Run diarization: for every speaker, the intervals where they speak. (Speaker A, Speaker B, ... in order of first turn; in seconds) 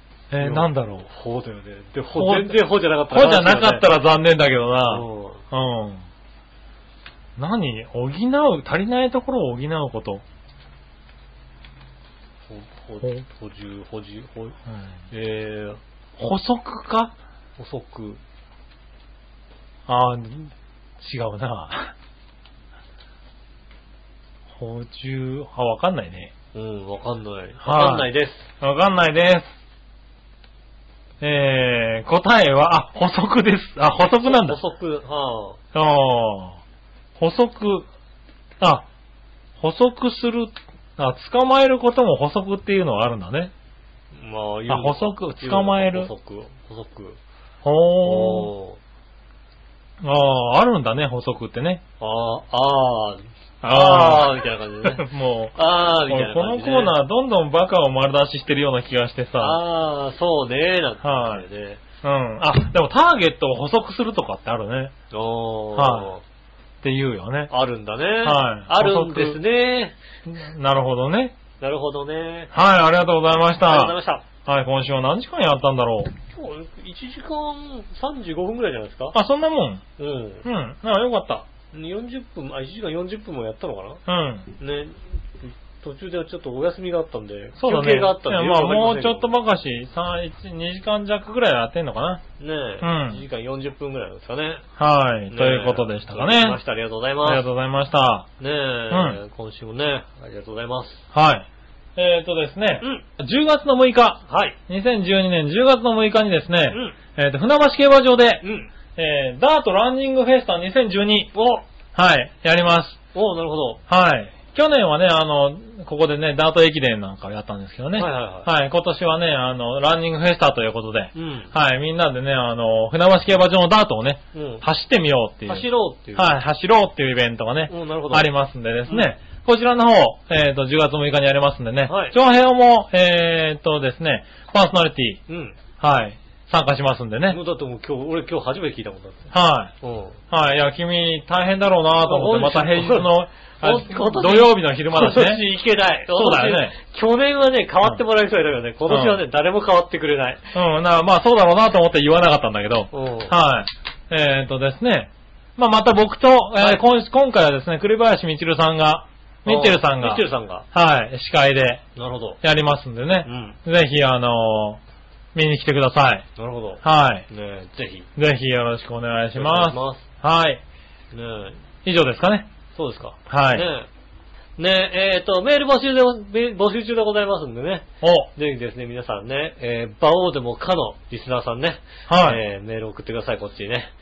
Speaker A: 0.3-1.1, 2.1-6.0, 7.4-10.2, 16.2-17.1, 19.9-21.9, 24.5-26.3, 27.6-29.5, 31.2-34.6, 35.7-36.6, 37.2-37.9, 38.6-38.9, 39.6-43.5, 44.7-46.1, 47.6-48.5, 50.0-51.8, 53.6-59.6, 61.0-61.4, 62.0-64.9, 65.7-66.1, 66.8-67.5, 68.2-69.4, 70.2-71.3, 72.5-76.1, 79.1-79.8, 80.4-81.5, 84.0-84.5, 87.6-92.2, 92.8-93.2, 94.8-96.6, 97.2-98.3, 98.9-99.2, 101.1-108.4, 109.0-111.3, 111.9-113.0, 113.9-135.2, 135.8-137.4, 139.3-139.7, 140.3-145.4, 146.1-146.7, 148.9-149.2, 150.5-161.8, 162.4-164.8, 165.3-166.3, 166.8-167.2, 168.2-170.6, 171.8-172.5, 173.3-173.7, 178.0-178.3, 182.1-182.4
Speaker B: 0.4-4.0, 4.8-5.4, 12.5-14.6, 15.1-15.8, 17.6-18.2, 26.5-28.5, 34.1-35.6, 44.1-47.2, 48.0-48.8, 52.0-55.0, 55.5-57.0, 59.4-61.8, 65.1-66.2, 67.5-69.9, 71.6-72.5, 73.6-74.2, 76.3-79.2, 80.0-80.4, 81.7-84.0, 84.6-89.3, 92.4-94.6, 95.3-97.4, 98.4-101.0, 104.3-104.5, 106.7-107.0, 108.4-108.7, 111.3-111.6, 113.1-113.8, 118.0-118.5, 121.1-121.5, 124.3-124.6, 125.5-126.3, 127.7-128.3, 131.9-132.2, 135.3-135.6, 137.3-140.2, 142.0-143.1, 143.6-150.5, 152.9-153.3, 156.6-156.8, 159.4-160.6, 161.9-162.4, 163.2-163.6, 166.3-168.1, 169.3-170.0, 171.1-171.6, 172.7-173.9, 174.6-183.9